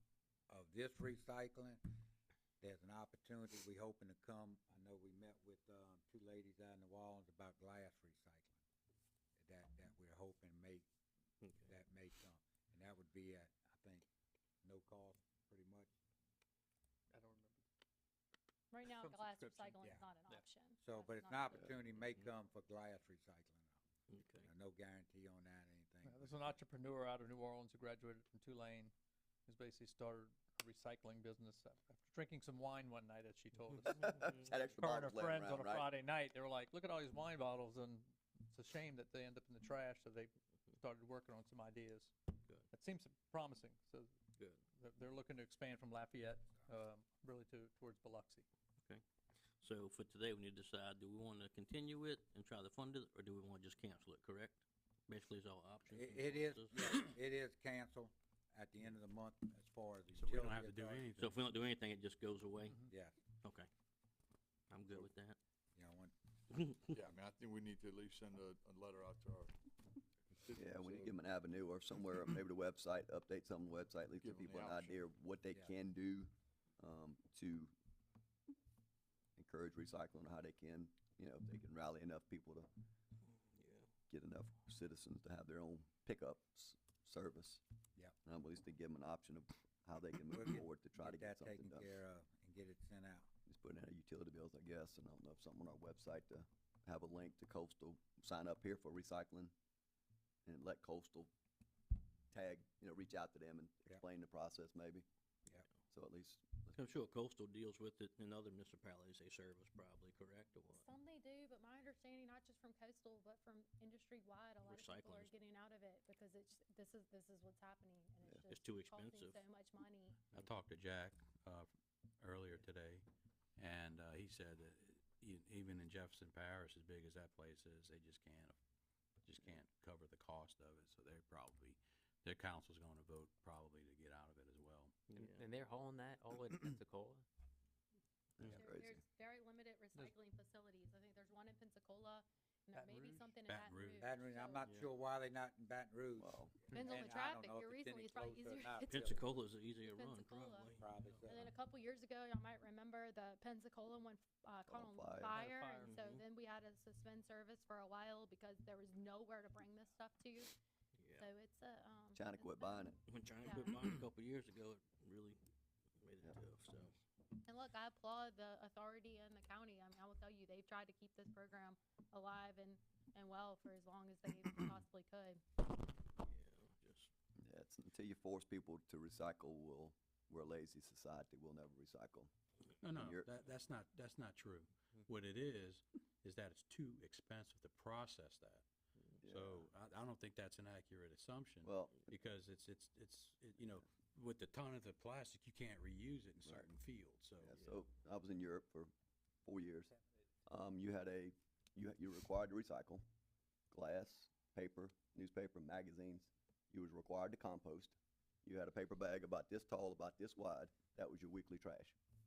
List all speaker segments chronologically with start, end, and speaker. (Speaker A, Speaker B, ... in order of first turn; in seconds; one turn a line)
Speaker A: 0.5-1.8
Speaker A: 2.6-8.6
Speaker A: 9.4-10.9
Speaker B: 11.4-11.7
Speaker A: 11.7-14.1
Speaker A: 14.6-15.9
Speaker C: 17.1-17.6
Speaker D: 18.7-21.7
Speaker C: 19.0-20.4
Speaker A: 20.8-23.8
Speaker B: 24.1-24.5
Speaker A: 24.4-26.6
Speaker C: 26.0-28.9
Speaker C: 29.5-34.2
Speaker B: 33.7-34.5
Speaker E: 34.0-35.9
Speaker C: 34.8-42.1
Speaker C: 42.7-44.1
Speaker C: 44.8-48.5
Speaker B: 49.6-57.1
Speaker A: 55.9-61.2
Speaker F: 60.1-61.3
Speaker B: 61.2-62.9
Speaker A: 62.9-63.1
Speaker B: 63.4-63.7
Speaker B: 64.7-65.4
Speaker A: 65.8-66.1
Speaker G: 66.8-69.5
Speaker G: 70.3-71.2
Speaker E: 70.6-77.7
Speaker G: 74.2-75.0
Speaker E: 79.4-82.7
Speaker B: 83.3-83.9
Speaker E: 84.1-87.6
Speaker E: 88.2-91.9
Speaker A: 90.3-93.3
Speaker E: 93.5-99.5
Speaker E: 100.5-101.3
Speaker E: 102.3-105.1
Speaker E: 105.9-106.8
Speaker B: 106.7-110.9
Speaker D: 110.7-120.2
Speaker B: 114.6-115.3
Speaker B: 118.5-119.4
Speaker F: 120.3-121.7
Speaker F: 122.2-123.0
Speaker F: 123.6-128.6
Speaker F: 129.2-134.9
Speaker B: 135.1-135.5
Speaker H: 135.2-137.3
Speaker E: 138.4-139.0
Speaker D: 138.5-144.6
Speaker C: 142.8-143.3
Speaker F: 143.5-144.1
Speaker A: 144.0-149.3
Speaker E: 146.2-146.6
Speaker D: 146.7-160.6
Speaker B: 148.8-151.3
Speaker A: 150.8-151.5
Speaker E: 154.7-155.4
Speaker C: 155.3-156.0
Speaker B: 155.8-156.2
Speaker B: 161.0-161.3
Speaker D: 161.2-162.8
Speaker E: 162.2-163.0
Speaker B: 163.1-165.4
Speaker D: 163.4-163.8
Speaker B: 166.0-166.9
Speaker D: 167.5-175.4
Speaker B: 176.2-177.1
Speaker E: 177.4-182.3
Speaker F: 182.8-188.7
Speaker E: 182.9-183.3
Speaker E: 189.2-189.7
Speaker F: 189.3-197.5
Speaker E: 191.6-192.0
Speaker E: 196.4-196.7
Speaker E: 197.4-198.9
Speaker E: 199.4-199.9
Speaker E: 200.5-203.0
Speaker E: 203.7-212.0